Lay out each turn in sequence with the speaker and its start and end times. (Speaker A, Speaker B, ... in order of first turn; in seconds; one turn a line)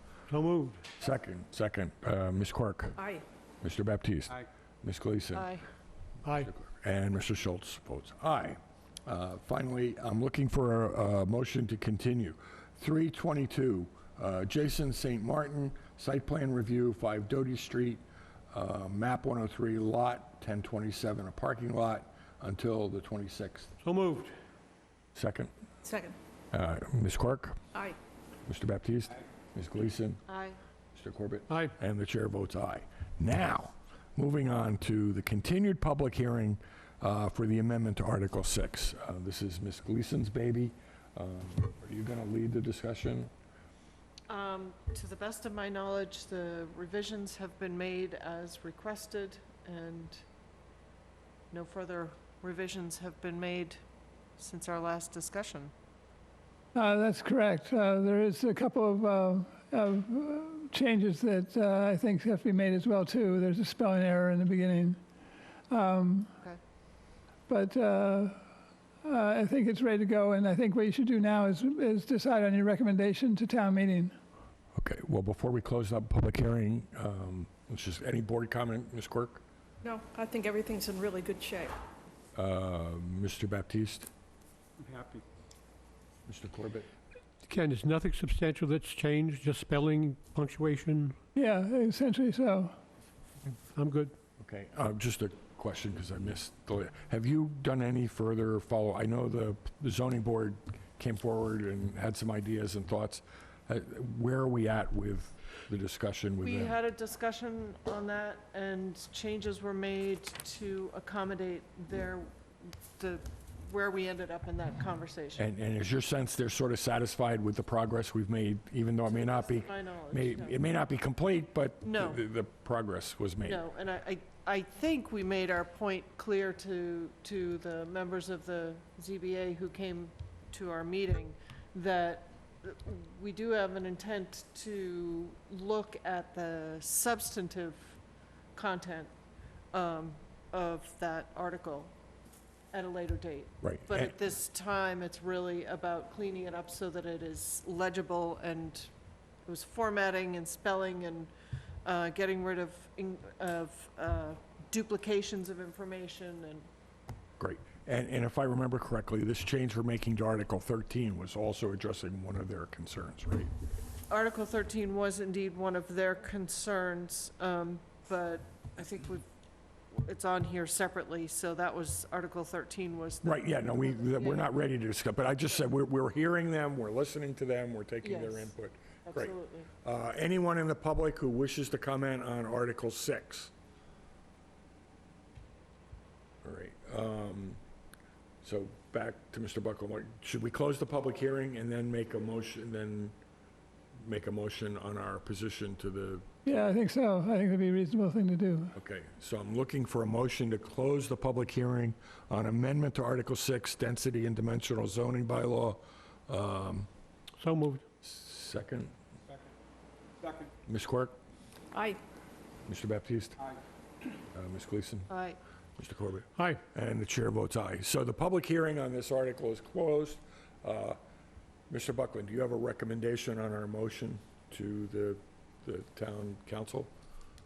Speaker A: 0.3-0.8
Speaker B: 1.0-3.0
Speaker B: 3.6-5.5
Speaker C: 5.3-5.6
Speaker A: 6.2-6.5
Speaker B: 6.3-23.7
Speaker A: 23.8-24.3
Speaker B: 25.1-25.5
Speaker D: 25.8-26.1
Speaker B: 26.5-27.6
Speaker B: 28.4-30.2
Speaker C: 30.3-30.6
Speaker B: 30.9-43.3
Speaker A: 31.5-31.7
Speaker C: 44.3-50.2
Speaker C: 51.5-53.8
Speaker C: 54.4-55.7
Speaker E: 56.7-65.0
Speaker E: 65.7-66.3
Speaker E: 67.5-68.4
Speaker E: 69.0-74.2
Speaker B: 74.7-79.4
Speaker D: 79.8-81.7
Speaker B: 82.3-84.1
Speaker B: 86.3-86.9
Speaker A: 87.4-91.2
Speaker E: 91.3-92.8
Speaker A: 93.7-94.1
Speaker B: 94.4-106.8
Speaker C: 106.4-112.3
Speaker C: 112.9-115.4
Speaker B: 115.4-123.6
Speaker C: 119.0-120.6
Speaker C: 121.8-122.2
Speaker C: 123.4-137.9
Speaker C: 138.6-139.1
Speaker C: 139.7-141.9
Speaker C: 142.7-148.9
Speaker B: 143.6-144.1
Speaker C: 149.4-151.3
Speaker C: 151.8-156.7
Speaker B: 157.4-163.5
Speaker C: 164.1-169.2
Speaker C: 169.9-174.5
Speaker B: 173.2-183.5
Speaker C: 178.0-178.5
Speaker C: 179.0-179.7
Speaker B: 186.4-187.6
Speaker B: 188.4-193.2
Speaker B: 193.9-196.7
Speaker E: 196.4-198.7
Speaker B: 198.7-206.9
Speaker A: 207.4-207.8
Speaker B: 208.0-208.9
Speaker B: 210.7-211.2
Speaker D: 211.7-212.0
Speaker B: 212.7-213.4
Speaker B: 214.3-215.1
Speaker C: 215.1-215.4
Speaker B: 215.8-221.0
Speaker A: 216.3-216.6
Speaker B: 221.7-226.9